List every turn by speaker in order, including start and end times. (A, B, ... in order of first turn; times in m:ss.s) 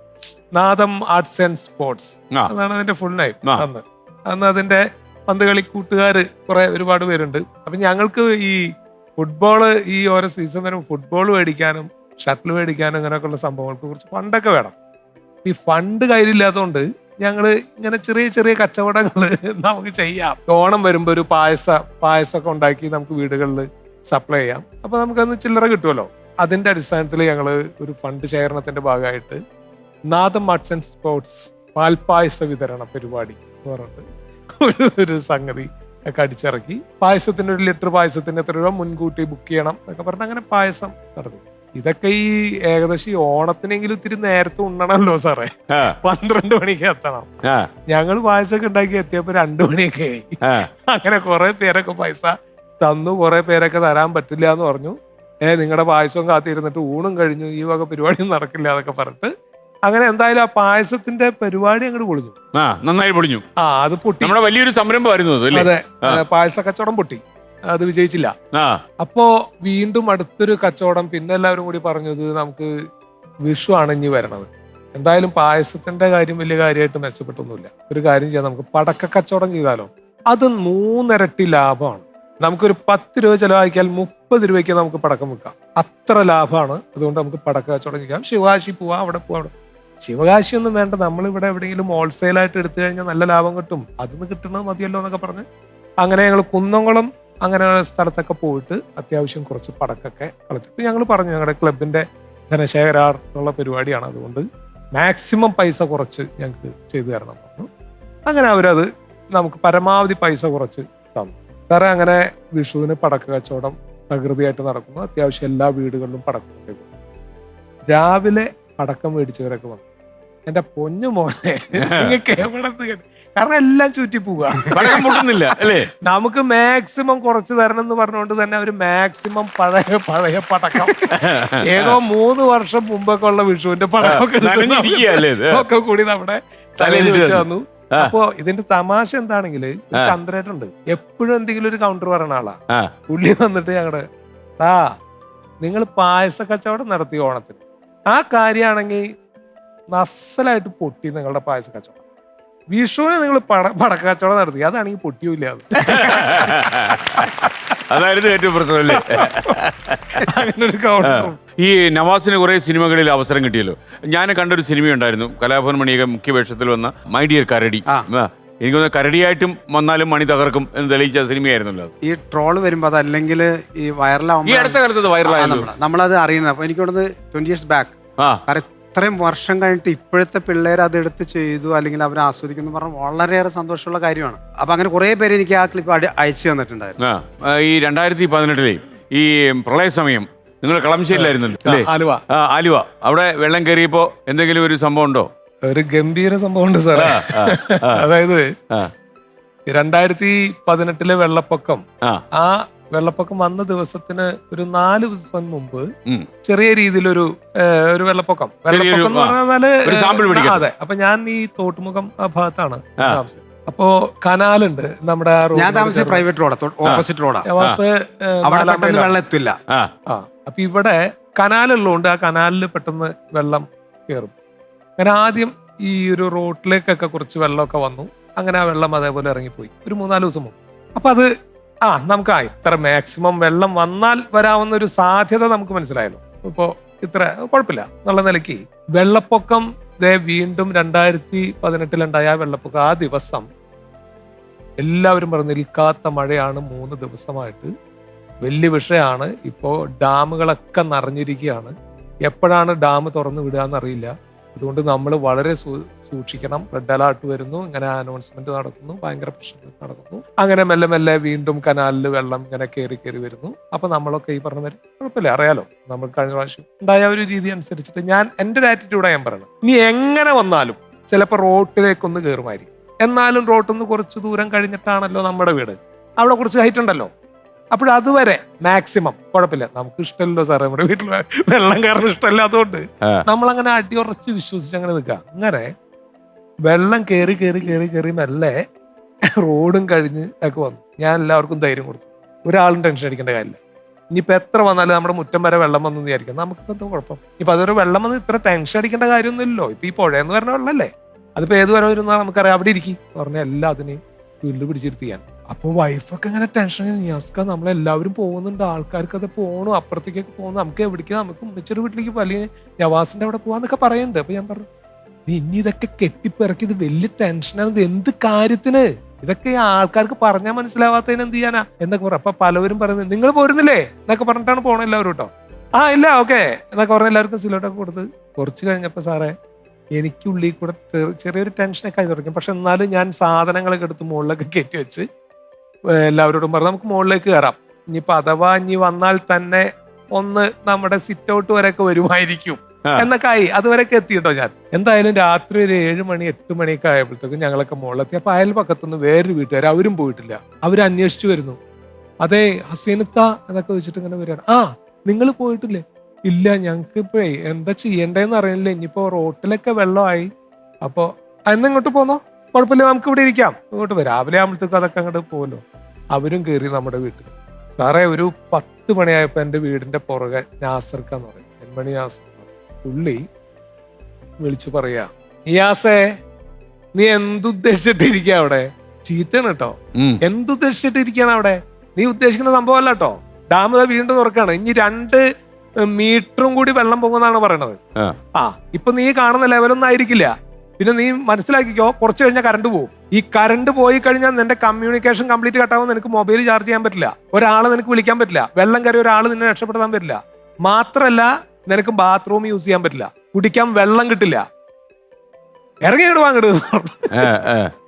0:00.6-0:14.7 A
0:15.4-0:29.4 A
0:30.1-0:47.3 A
0:47.4-0:47.7 B
0:47.9-0:59.3 A
0:59.9-1:02.4 A
1:02.6-1:03.4 B
1:03.6-1:04.4 A
1:04.2-1:06.2 B
1:05.5-1:08.4 A
1:08.5-1:08.8 B
1:09.0-1:12.7 A
1:13.5-1:35.4 A
1:36.0-1:47.7 A
1:48.3-1:56.9 A
1:57.9-1:59.8 A
2:00.5-2:11.1 A
2:01.8-2:02.2 B
2:04.7-2:05.9 B
2:10.9-2:12.0 B
2:11.6-2:24.0 A
2:14.0-2:15.6 B
2:16.8-2:18.1 B
2:24.6-2:24.9 A
2:25.6-2:29.1 A
2:29.9-2:32.0 A
2:32.7-2:36.5 A
2:35.8-2:40.3 B
2:37.2-2:37.5 A
2:38.9-2:39.6 A
2:40.2-2:41.4 A
2:41.1-2:51.9 B
2:52.0-3:07.0 C
2:54.4-2:55.7 B
3:07.0-3:15.3 B
3:11.1-3:12.2 A
3:15.7-3:18.5 A
3:17.0-3:18.0 B
3:19.7-3:25.9 A
3:26.4-3:36.3 A
3:28.7-3:30.6 B
3:35.5-3:37.5 C
3:37.5-3:39.2 A
3:38.4-3:39.6 C
3:40.1-3:44.3 A
3:45.0-3:51.3 A
3:51.9-4:03.5 A
4:04.8-4:07.7 A
4:08.4-4:11.7 A
4:12.3-4:37.1 A
4:37.7-4:45.7 A
4:46.7-4:48.6 A
4:49.4-4:53.6 A
4:54.1-5:14.7 A
5:15.3-5:29.4 A
5:30.0-5:35.1 A
5:35.9-5:51.6 A
5:52.2-6:00.3 A
6:00.8-6:05.6 A
6:06.1-6:13.2 A
6:14.4-6:16.2 A
6:17.0-6:25.2 A
6:25.8-6:27.8 A
6:28.4-6:44.5 A
6:45.8-6:47.3 A
6:47.1-6:47.7 B